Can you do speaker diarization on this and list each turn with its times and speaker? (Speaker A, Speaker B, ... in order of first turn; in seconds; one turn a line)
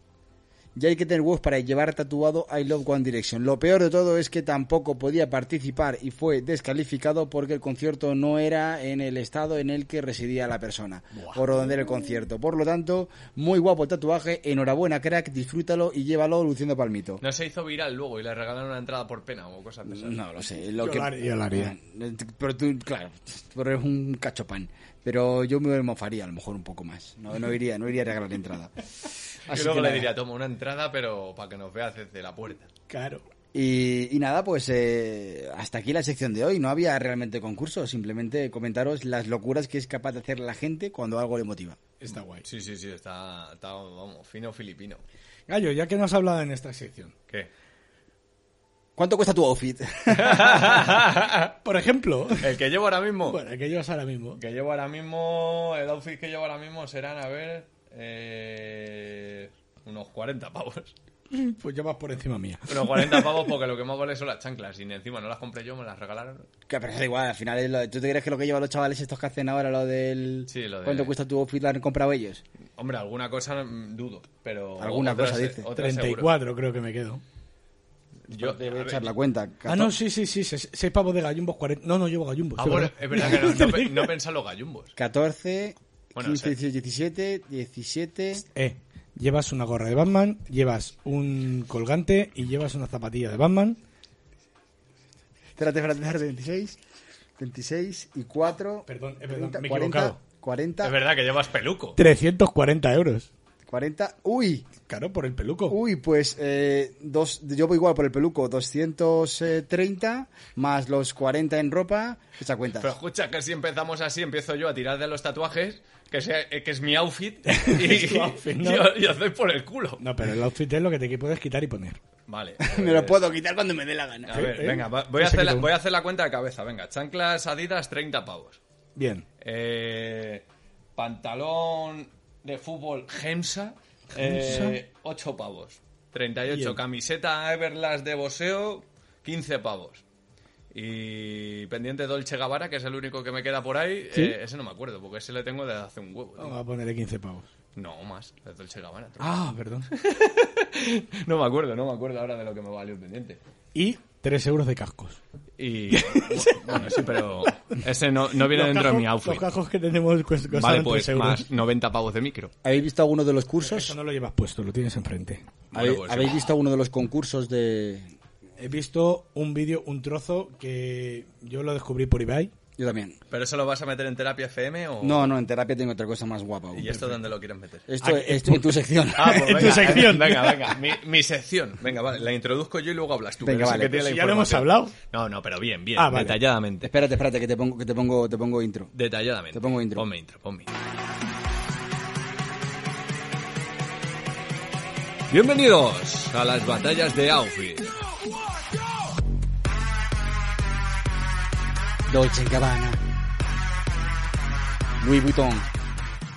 Speaker A: 0.7-17.2
Speaker B: 17.2-20.2
Speaker A: 19.9-28.7
Speaker C: 20.8-21.7
Speaker A: 29.5-30.1
Speaker B: 29.5-32.7
Speaker C: 32.9-33.2
Speaker A: 33.5-41.8
Speaker C: 42.0-42.4
Speaker B: 42.4-45.0
Speaker C: 45.5-47.1
Speaker A: 49.0-50.7
Speaker B: 50.1-51.5
Speaker C: 51.6-52.5
Speaker B: 52.4-53.4
Speaker C: 53.2-54.4
Speaker B: 54.4-60.9
Speaker C: 61.3-63.4
Speaker B: 62.7-66.5
Speaker A: 66.7-72.4
Speaker B: 70.5-71.1
Speaker B: 72.8-76.3
Speaker A: 74.8-75.7
Speaker C: 75.7-77.2
Speaker B: 78.3-79.1
Speaker A: 78.3-79.9
Speaker C: 79.7-84.1
Speaker B: 82.6-85.0
Speaker A: 85.0-88.4
Speaker B: 86.2-86.5
Speaker C: 88.5-93.8
Speaker A: 95.6-96.8
Speaker A: 97.4-101.0
Speaker C: 98.8-100.2
Speaker B: 100.8-102.0
Speaker C: 102.0-103.3
Speaker A: 103.7-104.7
Speaker C: 104.9-105.8
Speaker A: 105.7-112.9
Speaker B: 112.8-120.0
Speaker C: 117.5-118.9
Speaker C: 120.0-122.0
Speaker B: 122.3-123.2
Speaker A: 122.6-124.5
Speaker B: 124.2-128.6
Speaker C: 124.3-125.7
Speaker C: 128.9-129.2
Speaker B: 129.4-130.4
Speaker B: 130.9-140.0
Speaker C: 134.2-134.8
Speaker C: 136.5-136.8
Speaker B: 140.7-146.6
Speaker C: 146.4-147.5
Speaker B: 147.8-153.4
Speaker C: 149.2-149.9
Speaker C: 153.7-155.2
Speaker B: 155.6-159.5
Speaker C: 155.9-156.9
Speaker C: 158.4-161.4
Speaker B: 160.5-162.5
Speaker A: 162.6-163.9
Speaker C: 163.6-165.4
Speaker B: 165.7-166.3
Speaker A: 165.7-168.1
Speaker C: 168.6-172.5
Speaker A: 172.8-173.2
Speaker B: 173.3-175.3
Speaker A: 175.0-176.9
Speaker B: 176.7-177.9
Speaker C: 176.9-177.2
Speaker A: 177.9-179.8
Speaker C: 178.0-180.7
Speaker B: 179.2-186.9
Speaker A: 183.4-184.0
Speaker C: 183.8-184.9
Speaker C: 185.9-186.4
Speaker A: 186.8-188.9
Speaker B: 188.9-190.7
Speaker A: 189.5-190.1
Speaker B: 195.3-197.9
Speaker A: 202.1-203.0
Speaker A: 205.0-205.7